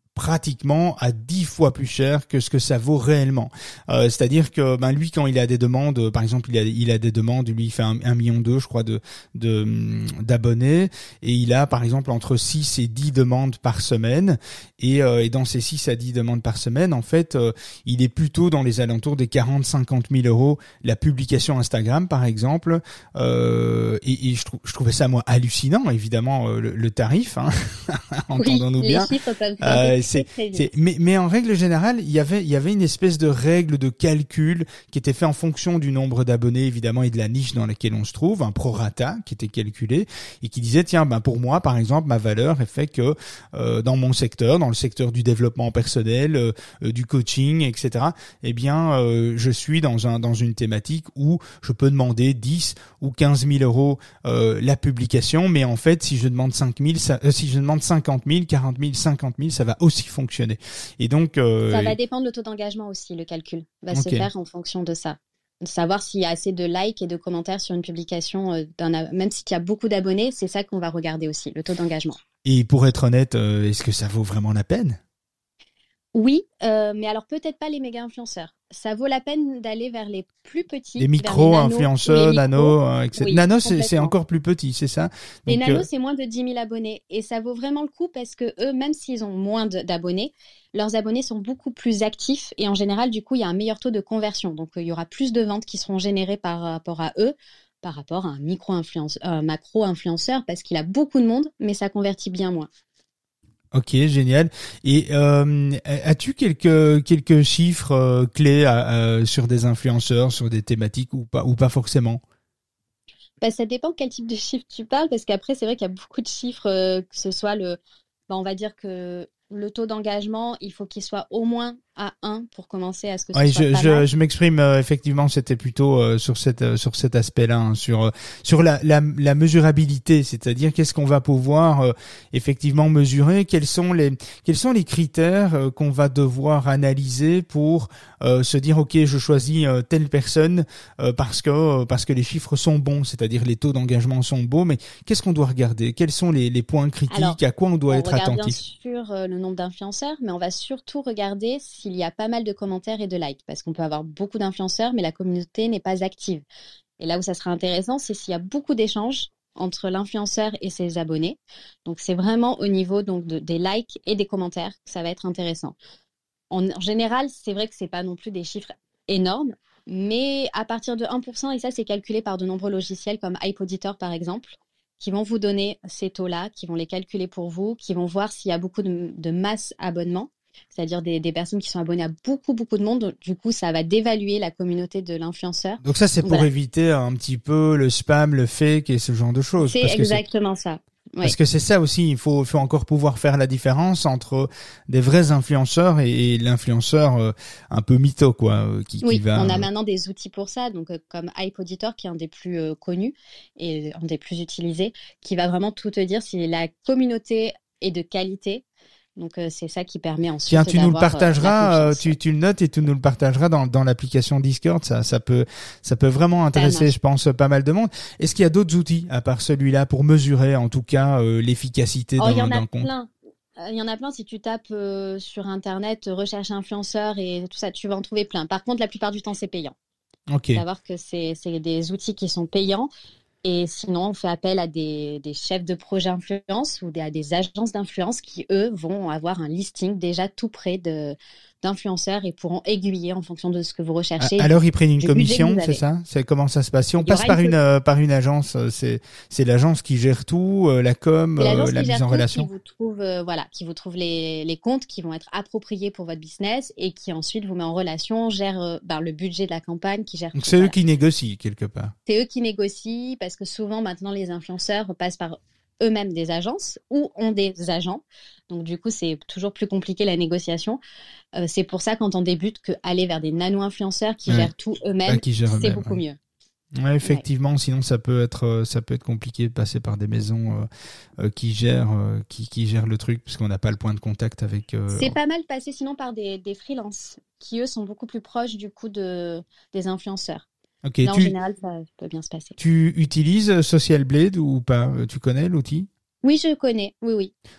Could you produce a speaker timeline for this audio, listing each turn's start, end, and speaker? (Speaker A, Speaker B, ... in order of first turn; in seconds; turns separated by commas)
Speaker A: 0.1-29.1, Speaker B: 28.4-30.7, Speaker A: 29.6-61.9, Speaker B: 61.7-72.2, Speaker A: 63.9-64.3, Speaker A: 72.4-75.0, Speaker B: 76.1-84.1, Speaker A: 81.0-85.8, Speaker B: 85.5-102.7, Speaker A: 103.7-112.2, Speaker B: 113.4-117.8, Speaker B: 118.3-124.0, Speaker A: 123.3-148.6, Speaker B: 147.1-147.4, Speaker B: 147.9-156.4, Speaker B: 157.0-165.8, Speaker B: 166.5-186.5, Speaker A: 185.8-190.2, Speaker B: 189.6-191.3, Speaker A: 191.2-199.7, Speaker B: 199.0-208.6, Speaker B: 209.2-212.2, Speaker A: 210.5-222.9, Speaker B: 216.5-216.9, Speaker B: 222.2-229.7, Speaker A: 230.3-230.6, Speaker B: 230.6-232.9, Speaker B: 233.4-245.8, Speaker A: 244.2-252.5, Speaker B: 247.0-247.5, Speaker B: 251.4-260.8, Speaker A: 260.3-261.9, Speaker B: 262.1-270.8, Speaker B: 271.4-276.2, Speaker A: 275.1-276.0, Speaker A: 276.8-280.6, Speaker A: 281.2-285.1, Speaker B: 284.9-290.5, Speaker A: 290.8-291.3, Speaker B: 291.0-292.6, Speaker A: 292.6-295.9, Speaker B: 296.2-297.3